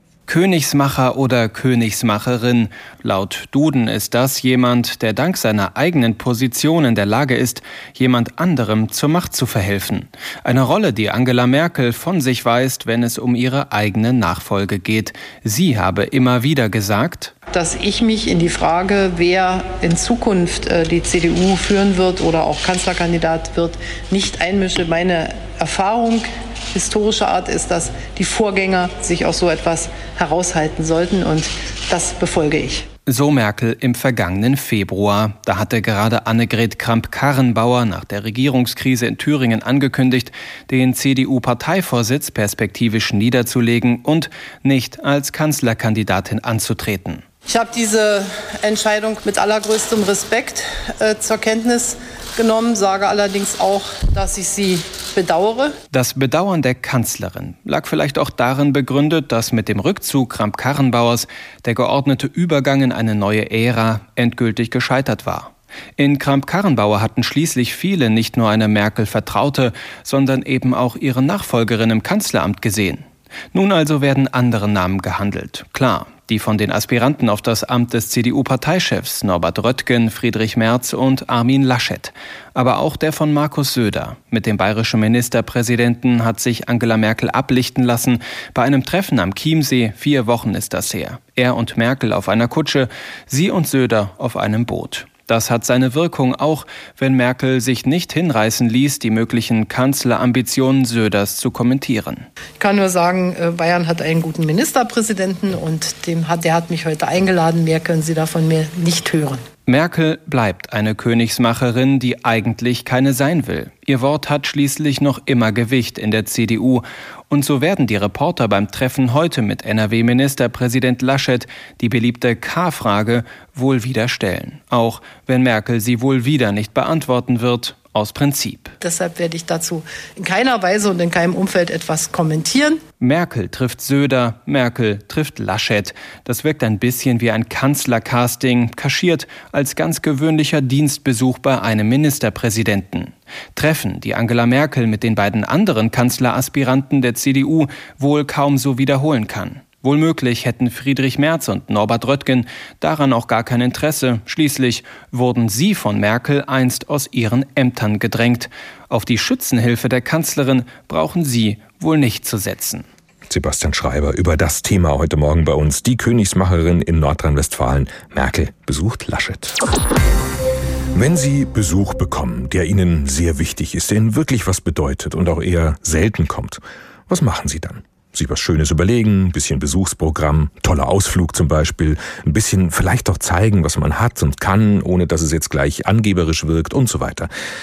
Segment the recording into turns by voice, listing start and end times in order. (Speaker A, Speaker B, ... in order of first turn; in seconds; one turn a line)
Speaker A: 0.3-17.3
Speaker B: 17.5-32.9
Speaker A: 33.1-47.2
Speaker B: 47.5-55.8
Speaker A: 55.9-102.3
Speaker B: 102.6-109.4
Speaker A: 109.7-128.7
Speaker B: 128.8-132.8
Speaker A: 133.0-162.9
Speaker C: 163.3-169.6
Speaker C: 170.9-187.3